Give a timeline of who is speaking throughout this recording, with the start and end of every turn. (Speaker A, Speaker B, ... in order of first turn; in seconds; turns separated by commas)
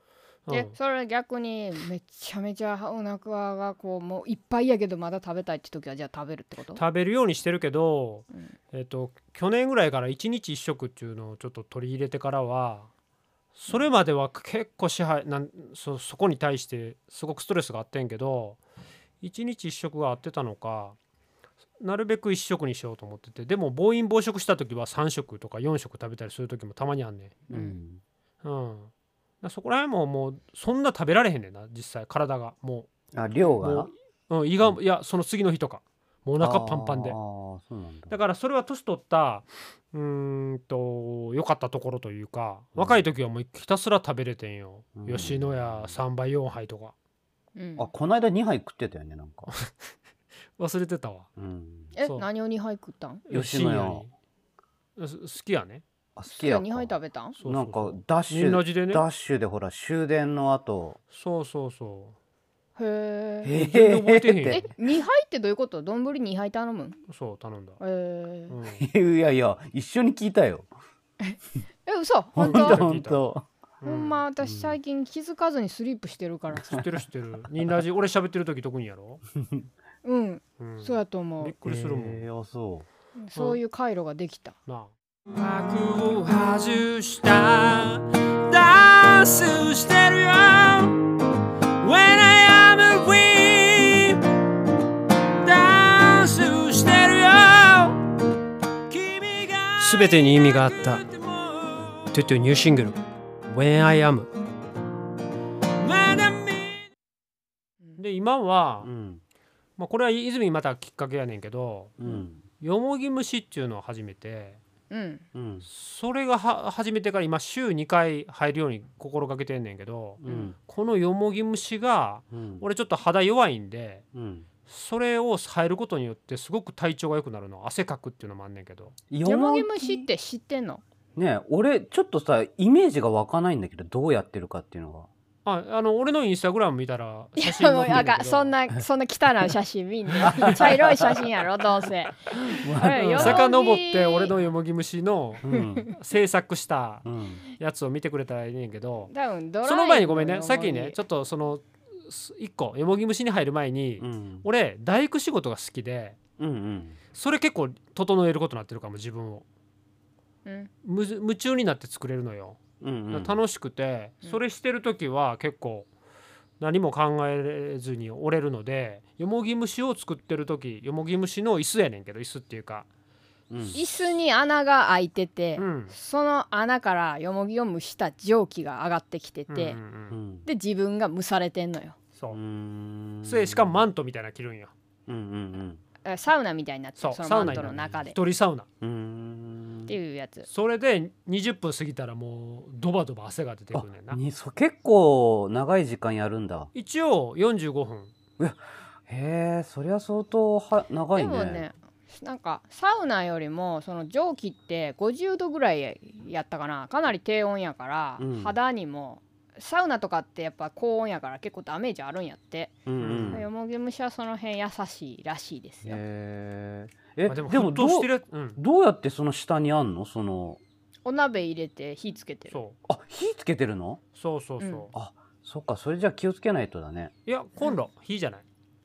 Speaker A: 0.5-0.7, Speaker B: 0.5-6.8, Speaker A: 6.7-12.9, Speaker A: 13.5-18.6, Speaker A: 19.2-20.9, Speaker A: 21.8-27.4, Speaker C: 27.5-28.0, Speaker B: 27.5-27.8, Speaker A: 28.4-28.9, Speaker A: 29.4-32.9, Speaker C: 33.1-33.9, Speaker A: 33.6-37.2, Speaker C: 36.4-38.2, Speaker A: 38.1-46.9, Speaker C: 42.8-43.0, Speaker C: 45.0-46.0, Speaker B: 47.5-47.9, Speaker C: 47.8-49.5, Speaker A: 50.6-51.3, Speaker C: 51.4-51.9, Speaker B: 52.0-53.2, Speaker A: 53.3-54.1, Speaker C: 53.3-54.0, Speaker A: 55.0-55.8, Speaker C: 56.1-61.0, Speaker B: 56.3-57.4, Speaker A: 57.4-59.0, Speaker A: 61.1-62.1, Speaker B: 62.8-63.5, Speaker C: 63.4-64.6, Speaker A: 63.5-64.7, Speaker B: 64.5-67.0, Speaker A: 67.1-67.8, Speaker B: 67.8-68.5, Speaker A: 68.5-68.8, Speaker C: 68.7-70.7, Speaker B: 71.2-72.8, Speaker C: 72.3-73.5, Speaker A: 72.4-73.2, Speaker A: 73.8-74.2, Speaker B: 73.8-76.8, Speaker C: 74.4-74.8, Speaker A: 76.7-79.2, Speaker C: 79.4-79.6, Speaker B: 80.0-81.5, Speaker A: 80.6-82.3, Speaker C: 81.6-82.8, Speaker B: 83.2-84.5, Speaker A: 84.7-91.1, Speaker A: 91.8-94.3, Speaker A: 95.4-98.0, Speaker A: 98.9-104.3, Speaker A: 105.8-106.8, Speaker A: 108.0-108.9, Speaker C: 108.8-109.2, Speaker A: 109.8-112.0, Speaker C: 112.0-112.4, Speaker A: 112.6-114.6, Speaker B: 114.9-115.2, Speaker C: 115.3-115.7, Speaker A: 115.7-124.0, Speaker C: 120.2-120.5, Speaker B: 120.3-120.5, Speaker C: 122.3-122.6, Speaker C: 124.1-124.5, Speaker A: 124.7-128.9, Speaker C: 129.1-130.0, Speaker B: 129.2-130.8, Speaker C: 131.2-135.1, Speaker A: 135.4-138.5, Speaker B: 137.4-144.3, Speaker C: 140.2-141.2, Speaker C: 142.3-143.4, Speaker A: 142.9-149.1, Speaker C: 145.4-145.9, Speaker C: 147.0-147.4, Speaker B: 149.1-151.0, Speaker A: 149.6-156.2, Speaker C: 154.0-154.4, Speaker C: 156.4-157.0, Speaker A: 157.1-159.4, Speaker B: 160.4-160.7, Speaker A: 160.8-165.9, Speaker C: 162.8-163.4, Speaker A: 166.6-172.9, Speaker C: 173.5-173.8, Speaker B: 173.7-179.8, Speaker A: 175.6-175.9, Speaker A: 179.5-180.2, Speaker C: 180.1-180.5, Speaker B: 180.4-182.0, Speaker C: 182.3-183.8, Speaker A: 183.2-184.7, Speaker C: 185.1-185.8, Speaker B: 186.0-188.2, Speaker A: 187.0-188.7, Speaker C: 188.8-189.9, Speaker B: 189.9-190.5, Speaker A: 190.5-194.2, Speaker C: 193.7-196.7, Speaker A: 196.7-198.1, Speaker C: 198.4-201.6, Speaker B: 201.1-216.0, Speaker C: 208.2-208.5, Speaker C: 212.8-213.5, Speaker A: 213.0-213.4, Speaker C: 215.8-220.6, Speaker A: 217.3-218.6, Speaker B: 221.0-222.6, Speaker A: 222.5-222.8, Speaker C: 222.9-224.0, Speaker A: 224.1-224.9, Speaker B: 224.6-224.9, Speaker C: 224.9-227.1, Speaker A: 227.2-228.4